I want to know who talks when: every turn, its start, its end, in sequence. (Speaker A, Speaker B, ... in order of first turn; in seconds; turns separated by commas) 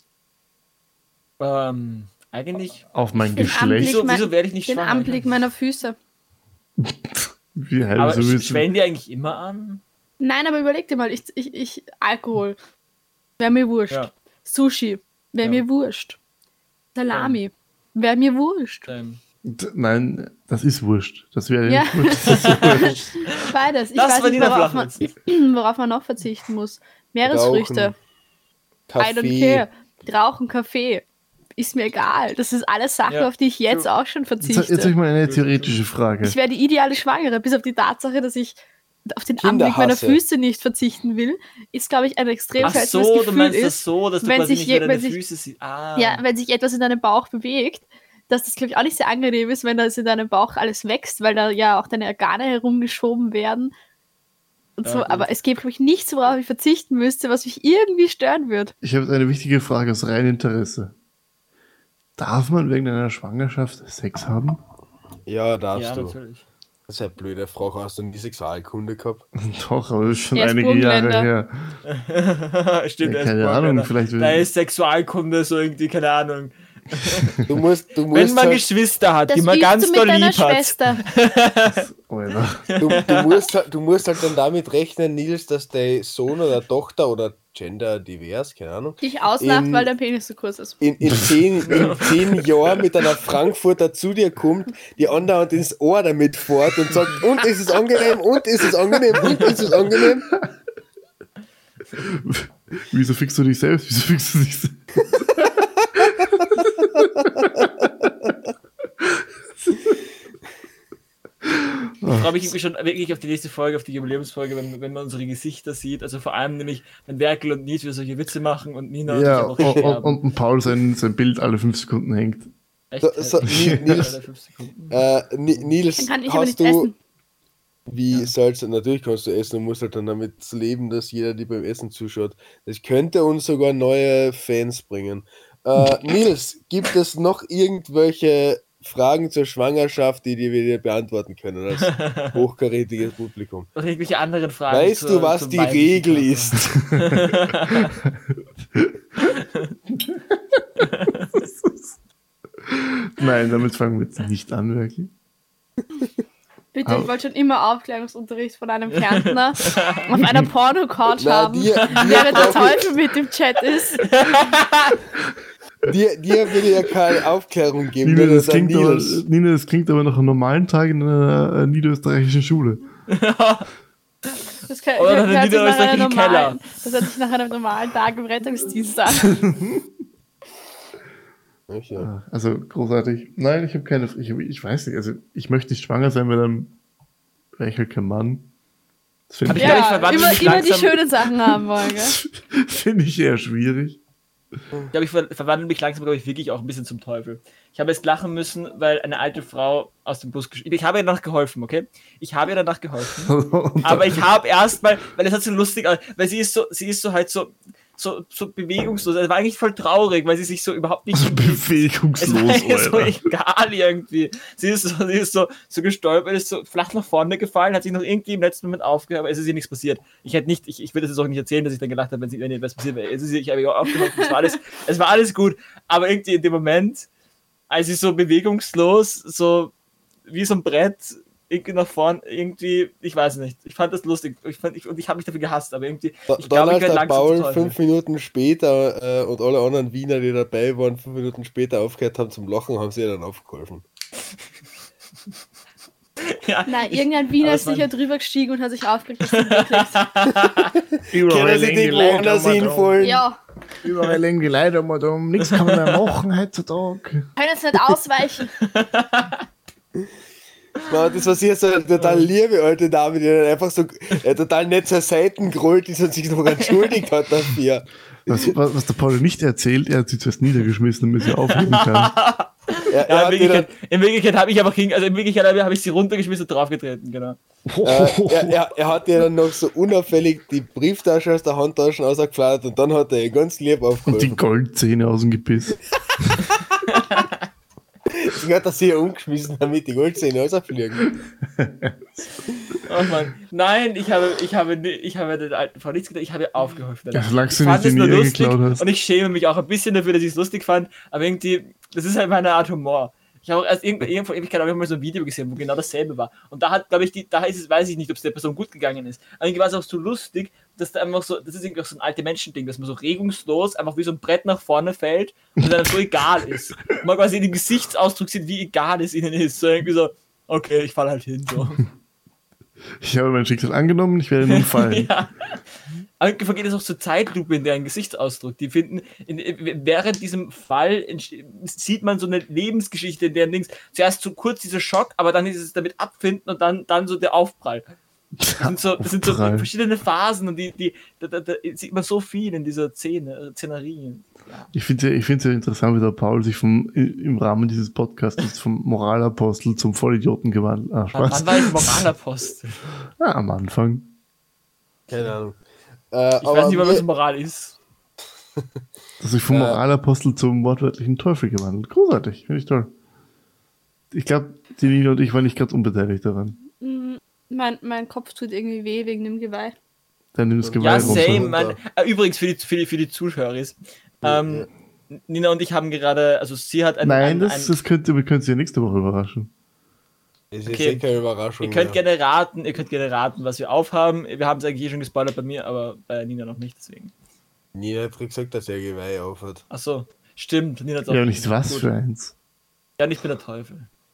Speaker A: 1.4-5.3, Speaker B: 2.9-4.0, Speaker C: 3.4-6.0, Speaker B: 6.8-8.7, Speaker A: 8.0-9.8, Speaker C: 10.2-12.6, Speaker C: 13.4-16.2, Speaker C: 16.9-18.9, Speaker A: 17.1-17.4, Speaker A: 18.9-19.2, Speaker B: 19.4-23.1, Speaker C: 21.6-27.9, Speaker A: 22.2-25.0, Speaker D: 27.2-27.9, Speaker D: 28.9-29.6, Speaker C: 29.0-31.0, Speaker C: 31.6-34.9, Speaker A: 33.1-33.9, Speaker B: 34.4-36.4, Speaker A: 35.2-35.8, Speaker C: 36.2-45.2, Speaker D: 39.4-40.2, Speaker A: 42.6-46.2, Speaker C: 46.0-53.7, Speaker C: 54.8-58.7, Speaker A: 54.8-55.3, Speaker B: 58.8-60.9, Speaker B: 62.2-64.6, Speaker D: 65.3-66.2, Speaker A: 65.7-66.4, Speaker D: 66.9-69.2, Speaker B: 69.4-71.8, Speaker C: 70.3-71.3, Speaker A: 71.8-77.3, Speaker B: 73.0-74.5, Speaker B: 77.0-77.4, Speaker D: 77.5-78.6, Speaker A: 78.1-81.8, Speaker C: 79.3-81.0, Speaker B: 81.7-82.7, Speaker A: 82.7-83.4, Speaker D: 82.8-89.9, Speaker C: 89.0-90.8, Speaker D: 90.8-100.3, Speaker B: 91.0-91.4, Speaker A: 91.6-92.1, Speaker A: 99.2-99.6, Speaker B: 102.0-105.2, Speaker B: 106.0-108.1, Speaker B: 109.0-110.0, Speaker B: 111.4-112.5, Speaker A: 112.0-120.2, Speaker B: 119.1-122.5, Speaker D: 119.2-119.9, Speaker A: 122.9-125.0, Speaker D: 123.0-124.1, Speaker B: 123.5-124.1, Speaker D: 124.9-126.9, Speaker C: 126.0-126.9, Speaker D: 127.9-143.7, Speaker A: 141.8-142.4, Speaker A: 143.7-148.0, Speaker D: 144.7-146.7, Speaker B: 146.8-147.2, Speaker B: 148.0-149.0, Speaker A: 149.2-149.7, Speaker B: 150.0-150.6, Speaker A: 150.8-151.4, Speaker B: 151.4-151.8, Speaker B: 152.6-155.1, Speaker C: 156.7-164.1, Speaker B: 156.8-157.1, Speaker A: 158.9-160.0, Speaker D: 161.2-162.9, Speaker A: 162.0-162.5, Speaker A: 164.0-165.0, Speaker D: 165.8-169.2, Speaker B: 168.0-172.8, Speaker A: 173.1-173.7, Speaker C: 174.7-179.3, Speaker A: 175.0-176.8, Speaker B: 179.1-179.9, Speaker D: 181.7-182.1, Speaker B: 181.9-186.7, Speaker B: 187.6-188.5, Speaker B: 189.3-190.4, Speaker A: 189.5-191.1, Speaker C: 189.6-192.2, Speaker B: 191.8-194.0, Speaker A: 194.9-227.1, Speaker B: 203.2-204.2, Speaker B: 211.1-213.2, Speaker A: 227.7-229.7, Speaker A: 230.3-237.8, Speaker D: 236.3-243.8, Speaker A: 246.2-247.9, Speaker C: 246.7-250.0, Speaker A: 249.3-250.7, Speaker B: 251.1-252.8, Speaker D: 251.2-253.2, Speaker A: 252.4-252.9, Speaker C: 253.0-253.4, Speaker B: 253.8-257.3, Speaker A: 253.9-254.2, Speaker A: 255.4-256.0, Speaker C: 257.4-258.5, Speaker A: 258.6-259.4, Speaker D: 260.8-268.5, Speaker A: 261.9-262.3, Speaker A: 266.7-266.9, Speaker B: 268.3-272.1, Speaker A: 271.4-277.4, Speaker D: 272.9-273.7, Speaker B: 277.7-278.6, Speaker D: 277.8-284.4, Speaker B: 284.1-286.4, Speaker A: 286.9-287.4, Speaker D: 288.1-291.1, Speaker B: 291.5-291.9, Speaker A: 292.8-321.8, Speaker B: 297.1-298.8, Speaker B: 323.0-325.1, Speaker A: 324.4-325.6, Speaker A: 326.2-337.9, Speaker B: 338.4-339.7, Speaker A: 338.6-344.7, Speaker B: 344.7-352.1, Speaker A: 351.1-352.8, Speaker B: 353.2-354.1, Speaker D: 355.1-355.6, Speaker D: 356.1-357.0, Speaker A: 356.4-357.8, Speaker B: 359.2-362.9, Speaker D: 359.5-359.8, Speaker B: 364.1-366.6, Speaker C: 366.8-369.7, Speaker B: 370.3-371.5, Speaker D: 370.6-371.8, Speaker A: 370.8-377.7, Speaker D: 374.2-374.7, Speaker B: 377.0-379.5, Speaker D: 380.5-382.0, Speaker A: 380.6-381.0, Speaker A: 381.6-387.1, Speaker D: 387.7-389.6, Speaker A: 389.7-391.9, Speaker B: 391.1-392.3, Speaker A: 393.0-393.9